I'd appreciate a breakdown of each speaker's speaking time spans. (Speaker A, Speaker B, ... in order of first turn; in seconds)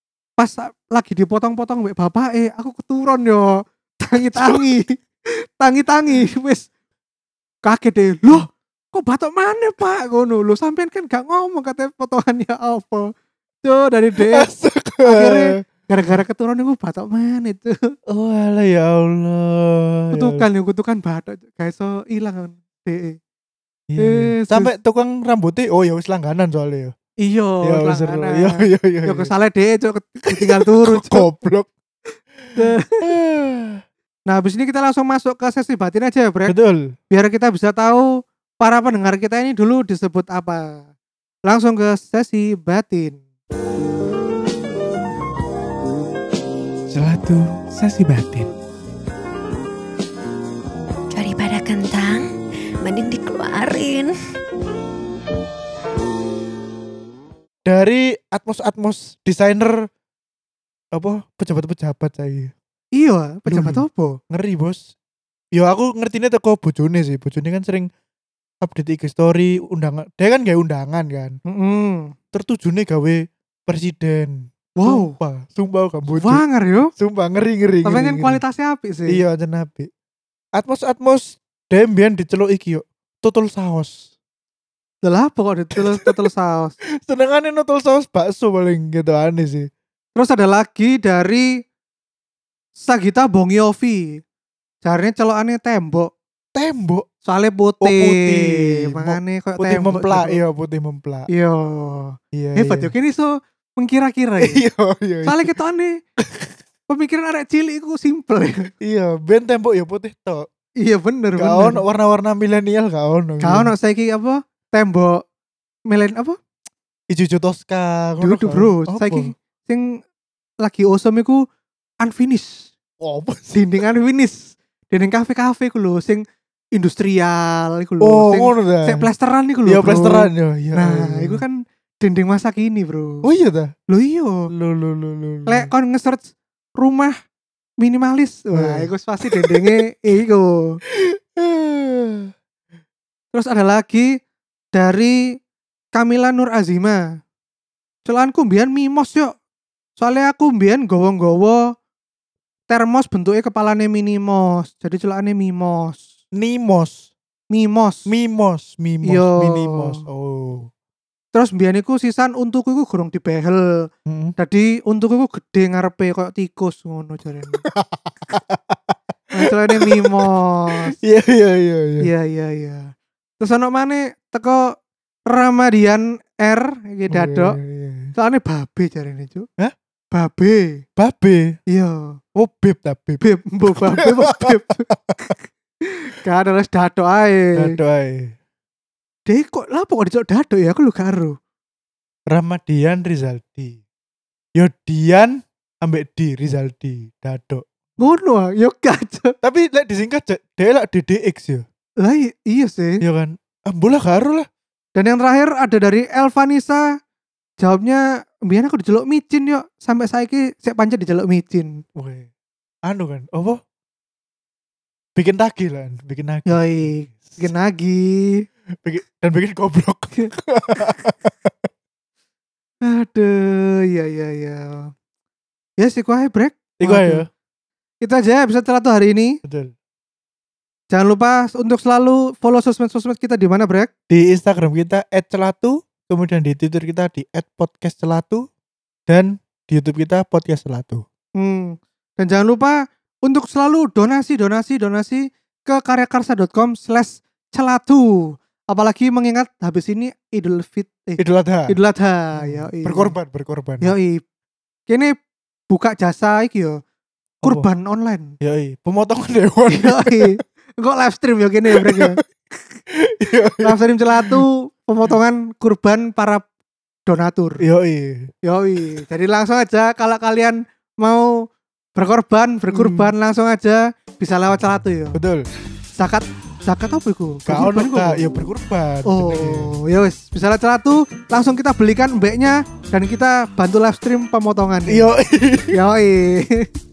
Speaker A: 0.4-4.9, 5.6-6.7, 7.6-13.1, 13.6-14.5, 15.0-17.9, 20.1-23.2, 24.0-24.7, 27.2-28.5, 29.0-31.3, 32.5-33.0, 34.3-36.5, 37.1-38.1, 38.6-40.8, 41.5-43.2, 63.0-64.2, 71.5-72.1, 74.8-75.1, 76.1-76.9, 77.8-79.2, 85.0-86.7, 90.2-91.5, 92.8-94.0, 94.8-96.1, 97.2-100.4, 101.3-104.6, 105.2-106.0, 106.9-108.7, 110.8-111.8, 113.4-115.2, 115.9-116.4, 118.2-119.8, 120.6-121.4, 122.0-122.7, 123.5-126.2, 126.7-133.3, 133.9-134.5, 135.5-137.1, 137.8-140.8, 143.3-144.2, 144.7-145.2, 145.9-147.0, 148.0-149.3, 150.0-151.6, 152.7-156.1, 157.5-158.1, 159.1-159.9, 161.3-163.8, 164.4-167.6, 169.3-170.9, 172.0-174.7, 175.3-177.6, 178.1-179.5, 180.1-180.8, 181.7-182.2, 183.2-185.3, 186.0-187.8, 189.3-191.3, 198.0-199.3, 202.0-203.0, 204.9-206.8, 207.6-211.7, 216.5-218.4, 222.8-224.9, 225.8-227.2, 228.0-229.4, 230.9-233.9, 241.4-248.1, 248.7-253.1, 253.8-254.2, 254.9-255.1, 255.7-256.8, 257.4-258.3, 259.7-262.2, 263.6-266.4, 267.1-267.6, 268.4-271.4, 272.0-275.2, 276.0-278.2, 279.1-285.1, 285.7-286.7
Speaker B: 4.2-4.7, 14.3-15.6, 18.1-20.4, 23.9-26.9, 27.6-29.3, 30.3-31.7, 32.4-33.8, 36.5-36.9, 46.9-48.5, 57.6-59.8, 60.9-62.5, 63.5-64.8, 65.5-67.9, 68.6-71.3, 72.3-76.4, 76.9-78.4, 79.1-79.9, 80.5-84.0, 85.7-86.2, 87.0-89.7, 96.5-97.0, 97.8-101.3, 102.3-102.9, 104.4-105.5, 106.2-106.5, 108.8-110.5, 111.4-113.7, 117.1-119.3, 123.0-123.6, 128.0-129.1, 129.7-131.4, 133.2-133.7, 134.5-135.7, 138.5-139.8, 140.9-142.3, 156.3-157.1, 158.1-160.7, 164.1-164.3, 167.6-170.2, 171.0-172.1, 177.1-178.1, 181.0-181.5, 182.3-183.2, 183.7-185.3, 187.6-188.3, 192.3-193.8, 194.6-197.6, 199.4-201.6, 203.0-204.4, 211.9-212.3, 212.9-213.6, 215.2-217.4, 218.8-221.7, 226.8-227.2, 229.4-229.7, 234.1-238.4, 239.1-241.0, 251.2-251.7, 252.4-253.9, 258.4-260.3, 261.7-262.1, 263.1-264.4, 267.6-268.3, 272.7-273.1, 275.1-275.4, 277.5-279.7, 284.9-285.8
Speaker C: 51.1-52.3, 52.8-54.1